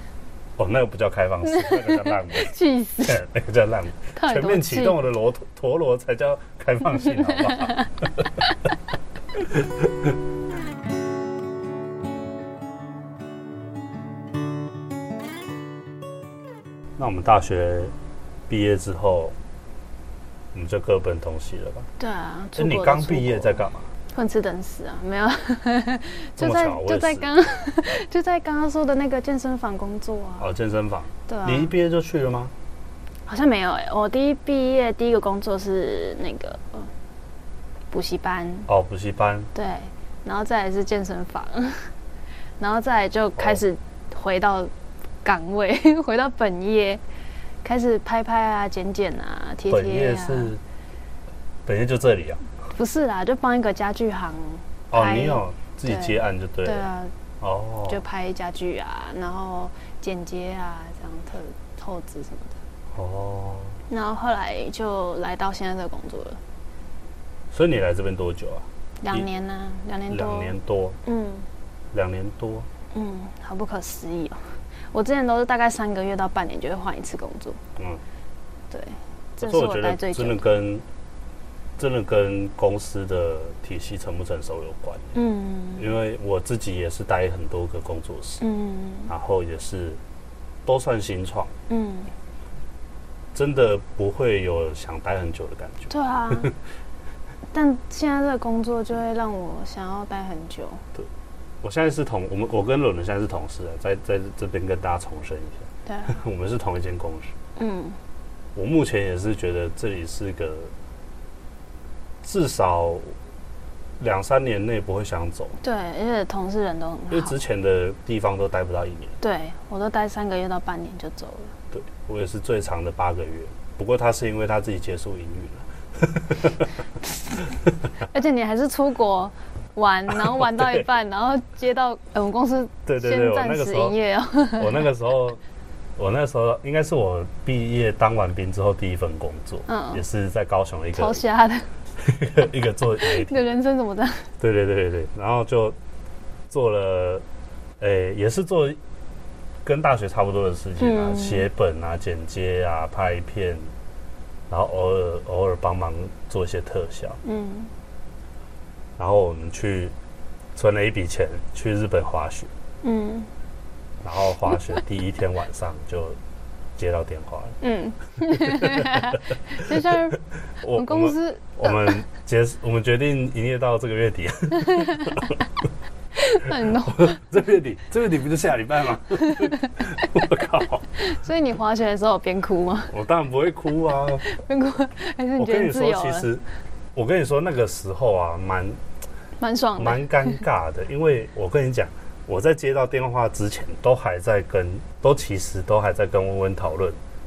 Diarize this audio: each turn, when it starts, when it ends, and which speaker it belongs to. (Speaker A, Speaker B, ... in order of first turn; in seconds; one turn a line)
Speaker A: 0.6-8.3
Speaker B: 1.4-3.2
Speaker B: 4.2-5.0
Speaker B: 7.5-7.8
Speaker A: 9.3-10.1
Speaker A: 17.0-17.9
Speaker A: 18.5-19.4
Speaker A: 20.5-21.9
Speaker B: 22.0-23.6
Speaker A: 22.6-23.9
Speaker B: 24.1-30.5
Speaker A: 26.4-27.5
Speaker A: 30.4-32.5
Speaker B: 31.3-31.7
Speaker B: 33.3-36.9
Speaker B: 37.9-38.7
Speaker A: 38.7-39.5
Speaker B: 39.5-41.9
Speaker B: 42.6-44.7
Speaker B: 45.2-47.0
Speaker B: 47.6-50.5
Speaker A: 49.7-50.6
Speaker A: 51.7-52.5
Speaker B: 52.7-57.1
Speaker A: 54.9-56.9
Speaker A: 57.4-58.0
Speaker B: 57.9-62.6
Speaker A: 62.9-63.8
Speaker B: 63.9-66.4
Speaker A: 67.5-69.3
Speaker B: 69.0-70.5
Speaker A: 70.1-71.0
Speaker B: 71.0-71.5
Speaker A: 71.9-72.7
Speaker B: 72.9-77.6
Speaker A: 77.8-78.0
Speaker B: 78.7-80.5
Speaker A: 79.4-80.8
Speaker A: 81.8-85.2
Speaker B: 85.2-85.9
Speaker A: 85.8-88.4
Speaker B: 88.4-89.1
Speaker A: 89.1-90.0
Speaker A: 90.7-91.5
Speaker B: 91.7-92.1
Speaker A: 93.3-96.5
Speaker B: 95.9-96.5
Speaker B: 97.5-100.8
Speaker A: 101.6-107.3
Speaker B: 105.9-106.2
Speaker B: 107.6-108.0
Speaker A: 108.5-110.7
Speaker A: 112.2-113.1
Speaker A: 114.0-115.6
Speaker B: 115.6-117.3
Speaker A: 117.1-119.2
Speaker B: 119.2-121.5
Speaker A: 121.7-126.7
Speaker B: 128.1-134.9
Speaker A: 130.1-130.9
Speaker A: 132.9-133.9
Speaker A: 134.6-135.4
Speaker A: 136.0-141.2
Speaker B: 139.7-140.0
Speaker B: 140.9-141.7
Speaker A: 142.0-143.4
Speaker B: 143.0-144.3
Speaker A: 144.4-145.8
Speaker A: 146.5-147.2
Speaker A: 147.8-148.8
Speaker A: 149.6-153.7
Speaker B: 150.8-151.5
Speaker A: 154.5-157.2
Speaker B: 157.2-157.7
Speaker A: 159.0-159.9
Speaker A: 160.6-162.5
Speaker B: 162.8-163.3
Speaker A: 164.0-166.2
Speaker A: 166.8-167.6
Speaker B: 167.6-170.2
Speaker A: 168.3-169.9
Speaker A: 170.6-175.4
Speaker B: 170.7-171.9
Speaker B: 174.6-175.3
Speaker B: 176.2-177.3
Speaker A: 176.7-180.9
Speaker B: 179.2-179.8
Speaker B: 181.0-182.9
Speaker A: 182.9-184.2
Speaker B: 184.2-186.3
Speaker A: 185.4-186.4
Speaker A: 186.9-188.8
Speaker B: 189.4-190.4
Speaker A: 189.8-197.0